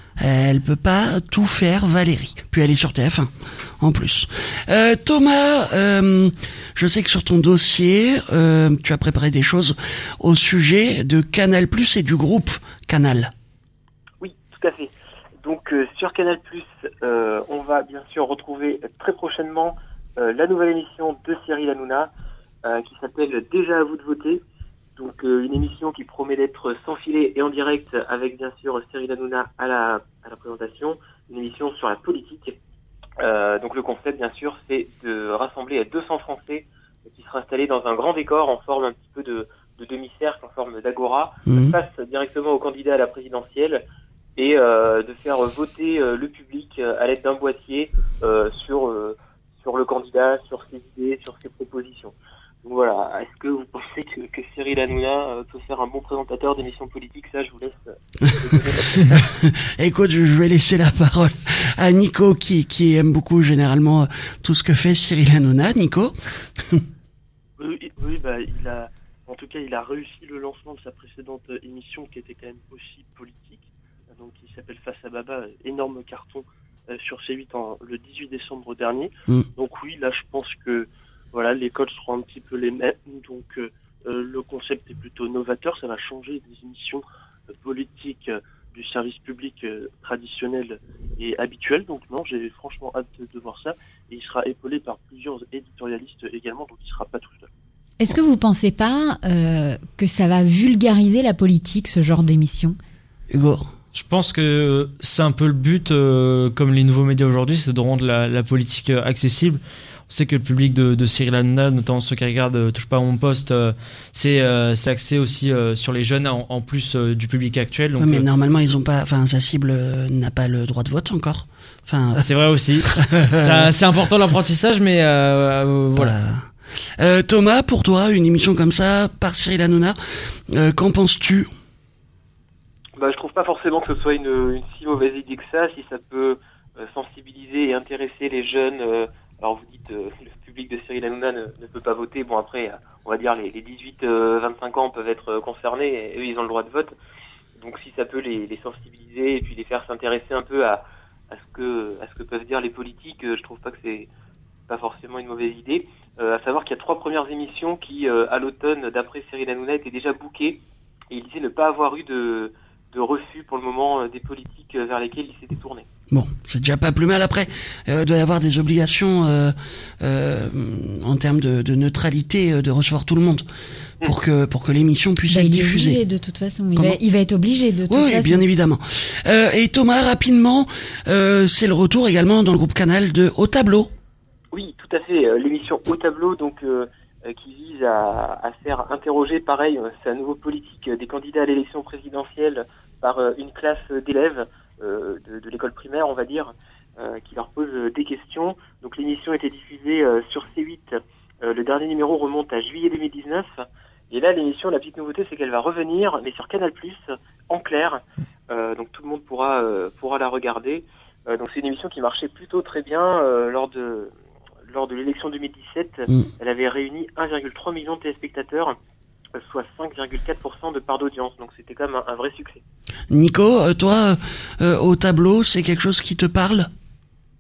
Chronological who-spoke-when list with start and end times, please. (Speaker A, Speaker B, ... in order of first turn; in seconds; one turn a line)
Speaker A: 0.2-13.3
Speaker B: 14.2-14.9
Speaker B: 15.4-22.1
Speaker B: 22.6-24.4
Speaker B: 25.0-32.6
Speaker B: 33.2-43.8
Speaker A: 41.5-41.8
Speaker B: 44.4-58.9
Speaker A: 58.2-66.8
Speaker C: 67.6-97.5
Speaker D: 98.0-102.8
Speaker A: 103.3-103.7
Speaker E: 103.9-118.2
Speaker A: 118.0-122.3
Speaker E: 122.2-126.2
Speaker A: 122.9-123.7
Speaker A: 126.0-130.0
Speaker A: 130.5-131.5
Speaker B: 133.0-147.0
Speaker B: 147.6-154.1
Speaker B: 154.7-165.9
Speaker A: 166.1-173.5
Speaker A: 174.0-176.0
Speaker D: 175.3-178.4
Speaker A: 177.9-183.9
Speaker B: 184.5-214.1
Speaker B: 214.7-218.8
Speaker B: 219.3-222.6
Speaker A: 223.1-226.7